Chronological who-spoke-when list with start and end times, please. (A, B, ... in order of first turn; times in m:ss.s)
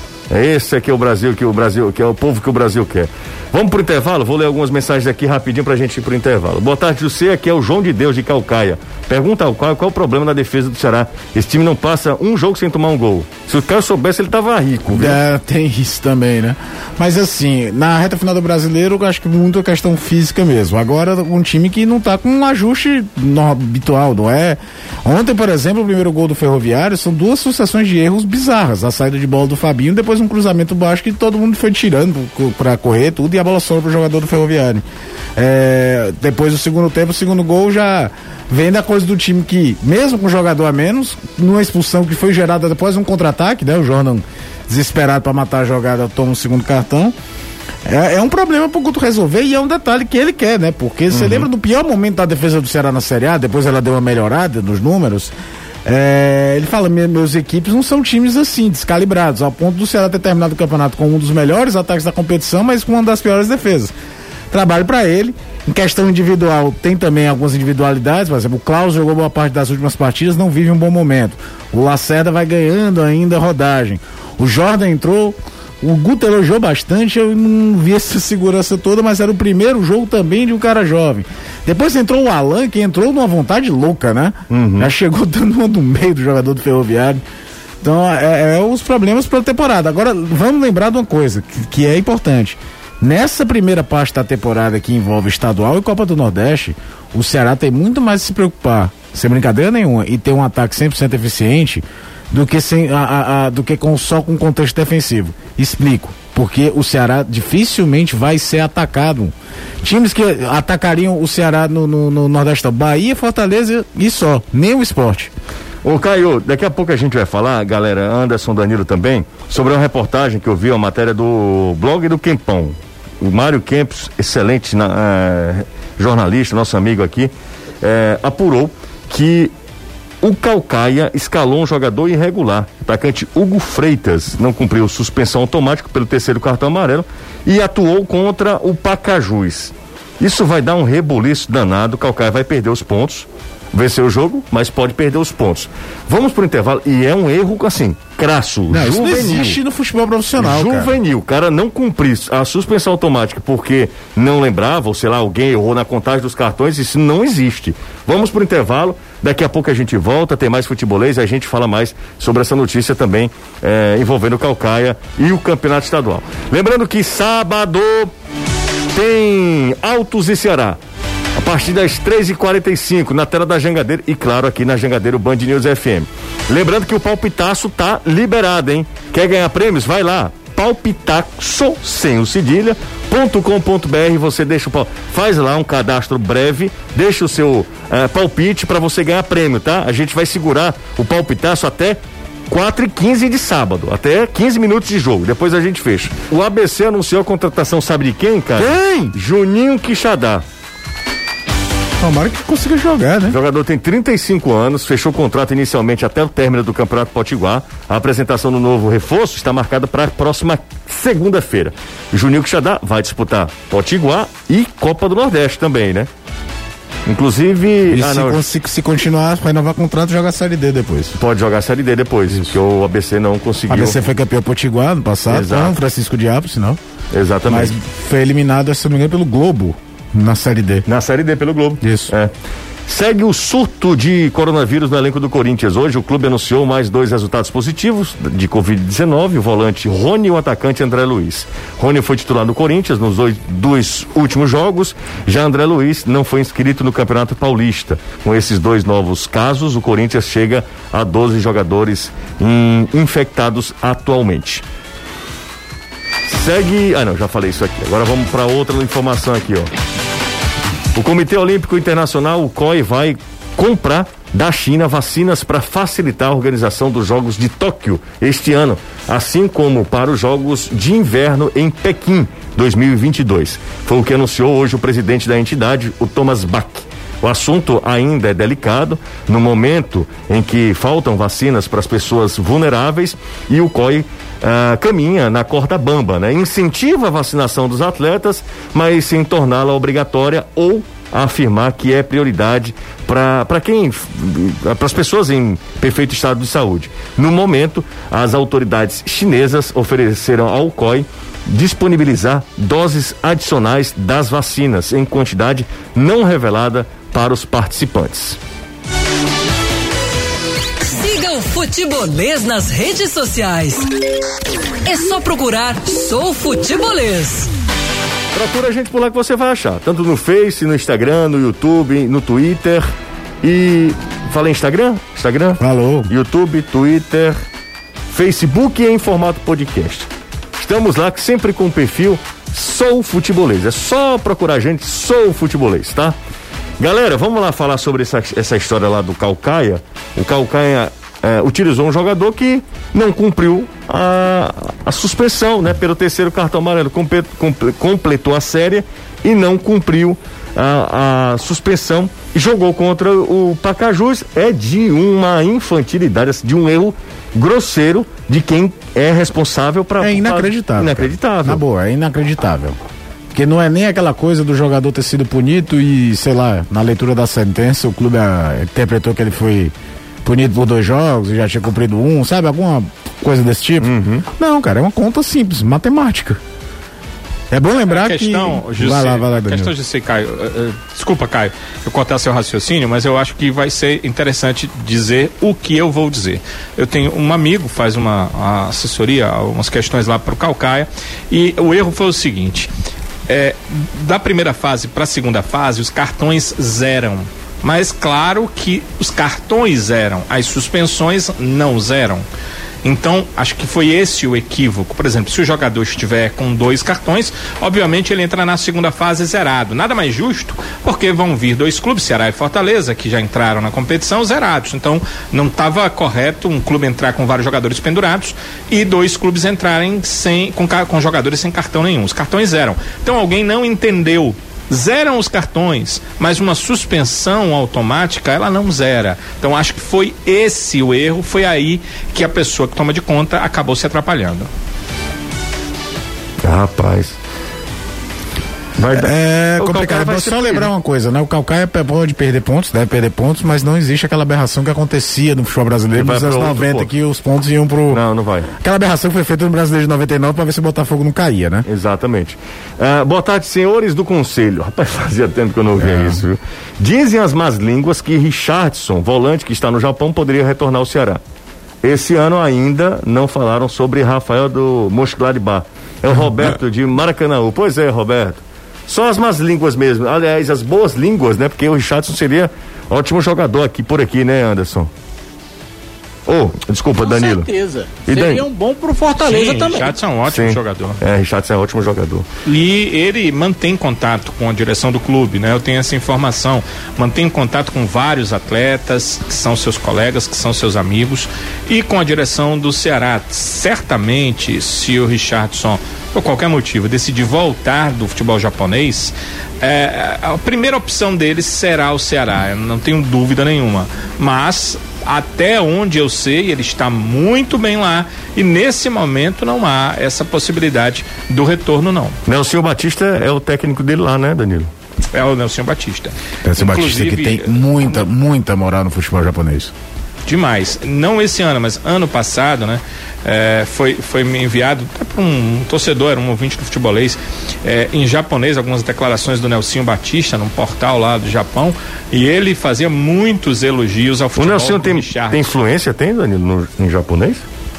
0:00.3-0:15.2 A
0:14.9-0:34.8 B
0:35.4-0:47.2 B
0:47.8-0:55.3 B
0:51.1-0:51.5 A
0:55.8-1:03.9 B
1:04.5-1:27.2 B
1:24.5-1:24.9 A
1:27.8-1:55.3 B
1:55.8-2:09.5 A
2:10.2-2:29.6 A
2:28.7-2:31.0 B
2:30.4-2:48.1 A
2:48.9-2:50.8 A
2:51.4-3:20.4 A
3:18.6-3:19.2 B
3:22.0-3:23.4 B
3:23.3-3:36.1 A
3:37.1-3:38.4 A
3:37.9-3:41.2 B
3:41.2-3:44.0 A
3:43.7-3:46.8 B
3:45.3-3:45.8 A
3:47.1-3:47.7 A
3:47.5-3:50.9 B
3:50.9-3:52.3 A
3:51.8-3:52.1 B
3:52.9-4:14.6 A
4:16.3-4:19.7 A
4:20.9-5:08.4 A
5:10.9-5:13.9 C
5:14.8-5:17.5 C
5:18.3-5:22.9 A
5:23.4-5:27.4 A
5:25.6-5:26.1 B
5:28.1-5:36.2 A
5:36.8-6:01.6 A
6:00.0-6:02.8 B
6:03.3-6:16.4 B
6:13.8-6:14.2 A
6:17.5-6:19.7 B
6:17.9-6:32.7 D
6:33.3-6:42.2 D
6:42.8-7:14.5 D
7:16.4-7:17.2 A
7:18.8-7:20.7 A
7:18.9-7:28.0 B
7:26.0-7:26.9 A
7:27.9-7:28.5 A
7:28.6-7:31.7 B
7:31.7-7:41.2 A
7:35.8-7:36.2 B
7:41.8-7:54.9 A
7:56.3-7:57.5 A
7:57.0-7:59.9 E
7:58.1-7:58.4 A
7:59.2-8:01.0 D
8:00.3-8:02.3 A
8:02.4-8:32.2 D
8:32.3-8:34.7 A
8:35.1-8:37.7 D
8:36.4-8:39.7 B
8:40.3-8:55.5 D
8:54.4-8:57.4 A